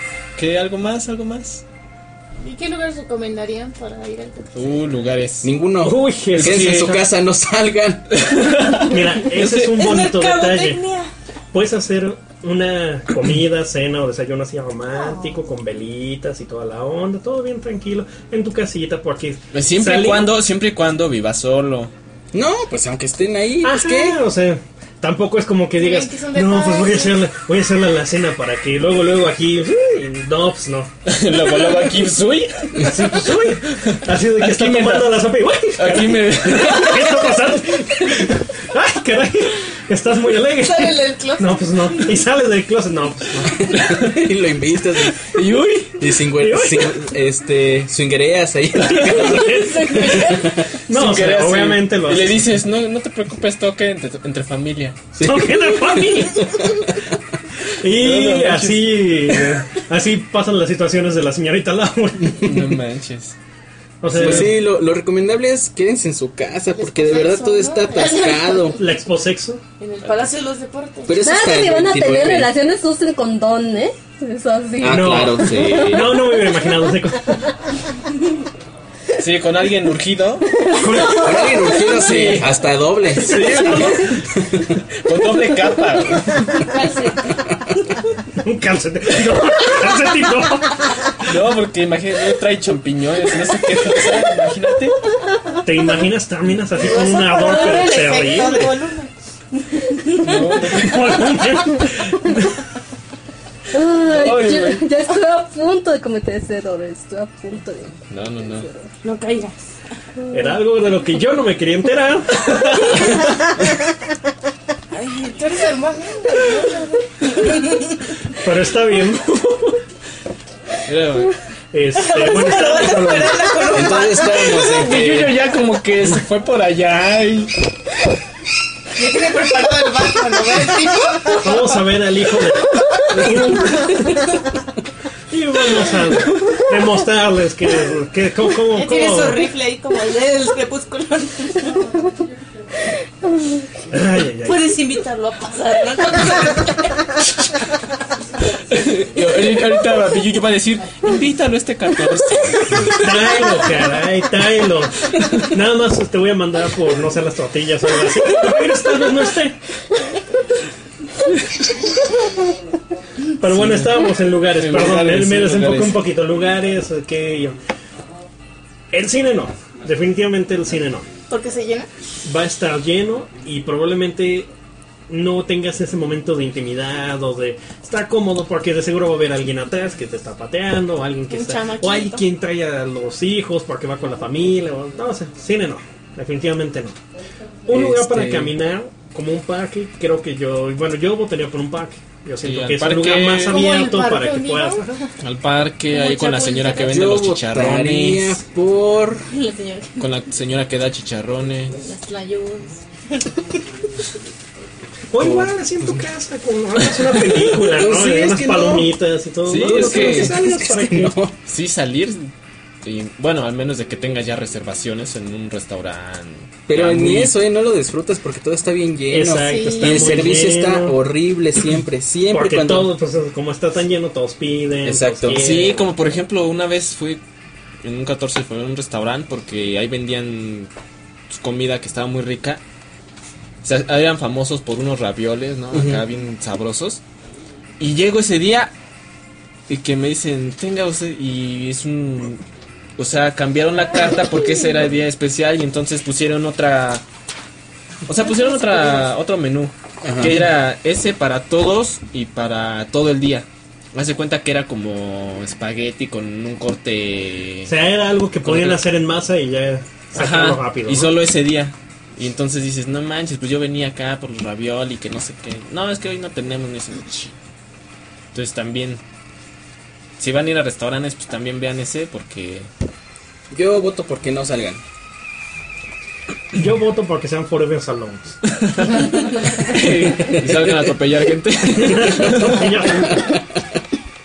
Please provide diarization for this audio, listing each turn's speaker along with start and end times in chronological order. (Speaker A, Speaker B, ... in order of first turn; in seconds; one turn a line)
Speaker A: 0.3-1.6
Speaker B: 2.4-4.6
Speaker A: 4.5-5.5
Speaker C: 5.4-8.2
Speaker D: 5.8-7.0
Speaker A: 6.3-7.0
Speaker A: 8.1-9.9
Speaker D: 8.8-10.8
Speaker B: 9.6-11.1
Speaker D: 11.5-20.4
Speaker B: 14.9-15.4
Speaker A: 19.5-21.9
Speaker C: 22.3-24.2
Speaker D: 23.6-30.9
Speaker B: 25.7-27.2
Speaker A: 31.0-37.4
Speaker D: 32.8-43.6
Speaker B: 40.6-42.2
Speaker C: 43.5-45.4
Speaker A: 45.2-46.0
Speaker C: 46.0-50.8
Speaker D: 46.3-47.1
Speaker D: 48.8-52.5
Speaker A: 50.9-55.0
Speaker C: 55.1-56.9
Speaker D: 55.2-56.7
Speaker D: 57.7-62.6
Speaker A: 57.9-59.6
Speaker A: 62.4-63.4
Speaker D: 64.0-64.5
Speaker A: 64.1-64.5
Speaker C: 64.1-68.8
Speaker B: 66.7-68.8
Speaker D: 68.8-69.6
Speaker B: 69.8-71.2
Speaker C: 71.1-72.5
Speaker E: 71.2-76.2
Speaker C: 74.8-76.3
Speaker D: 74.8-77.5
Speaker A: 79.2-80.5
Speaker E: 80.5-81.6
Speaker D: 80.8-81.2
Speaker C: 81.0-83.5
Speaker A: 81.9-82.5
Speaker A: 83.1-84.2
Speaker D: 83.2-84.2
Speaker C: 84.3-84.7
Speaker A: 85.0-86.7
Speaker B: 86.6-87.3
Speaker D: 88.4-91.2
Speaker A: 91.2-95.0
Speaker D: 95.6-98.8
Speaker B: 96.8-100.7
Speaker A: 100.2-101.3
Speaker D: 100.6-102.5
Speaker E: 103.7-108.9
Speaker A: 104.1-104.8
Speaker A: 108.1-108.7
Speaker B: 109.0-109.7
Speaker D: 110.3-113.2
Speaker B: 114.9-118.1
Speaker D: 118.4-119.8
Speaker A: 120.8-121.3
Speaker D: 121.7-123.6
Speaker B: 122.0-124.7
Speaker C: 123.7-125.4
Speaker A: 124.5-127.6
Speaker B: 128.9-131.8
Speaker D: 131.4-134.2
Speaker D: 135.3-139.5
Speaker B: 138.7-142.1
Speaker D: 143.9-144.8
Speaker B: 144.4-146.9
Speaker A: 148.7-152.9
Speaker D: 152.8-159.6
Speaker D: 163.4-167.6
Speaker A: 163.4-166.1
Speaker D: 168.9-171.1
Speaker B: 171.3-171.9
Speaker D: 172.2-174.5
Speaker D: 175.1-187.0
Speaker B: 181.3-182.2
Speaker D: 187.7-195.0
Speaker C: 187.7-188.5
Speaker A: 187.7-188.5
Speaker A: 192.4-193.8
Speaker B: 193.4-195.1
Speaker A: 195.2-198.4
Speaker B: 195.9-197.0
Speaker C: 196.8-199.3
Speaker B: 199.2-200.1
Speaker A: 200.0-201.8
Speaker B: 201.8-203.6
Speaker D: 205.1-211.2
Speaker C: 205.2-206.0
Speaker C: 207.6-208.9
Speaker A: 209.4-210.4
Speaker C: 209.4-211.3
Speaker A: 211.5-217.3
Speaker C: 216.7-222.9
Speaker D: 219.1-221.0
Speaker B: 219.4-220.4
Speaker D: 222.3-225.8
Speaker C: 224.8-225.7
Speaker A: 225.4-227.2
Speaker A: 227.8-230.7
Speaker A: 231.3-232.6
Speaker A: 233.6-237.0
Speaker C: 235.7-236.0
Speaker A: 237.8-238.7
Speaker A: 239.7-242.4
Speaker A: 243.0-247.0
Speaker A: 248.1-257.7
Speaker C: 250.0-250.5
Speaker D: 257.7-261.1
Speaker A: 258.4-258.8
Speaker A: 260.1-267.4
Speaker A: 268.3-269.0
Speaker A: 270.2-272.7
Speaker C: 273.5-274.8
Speaker D: 276.5-279.8
Speaker A: 278.6-279.0
Speaker A: 279.6-282.7
Speaker C: 280.2-280.5
Speaker D: 281.7-283.4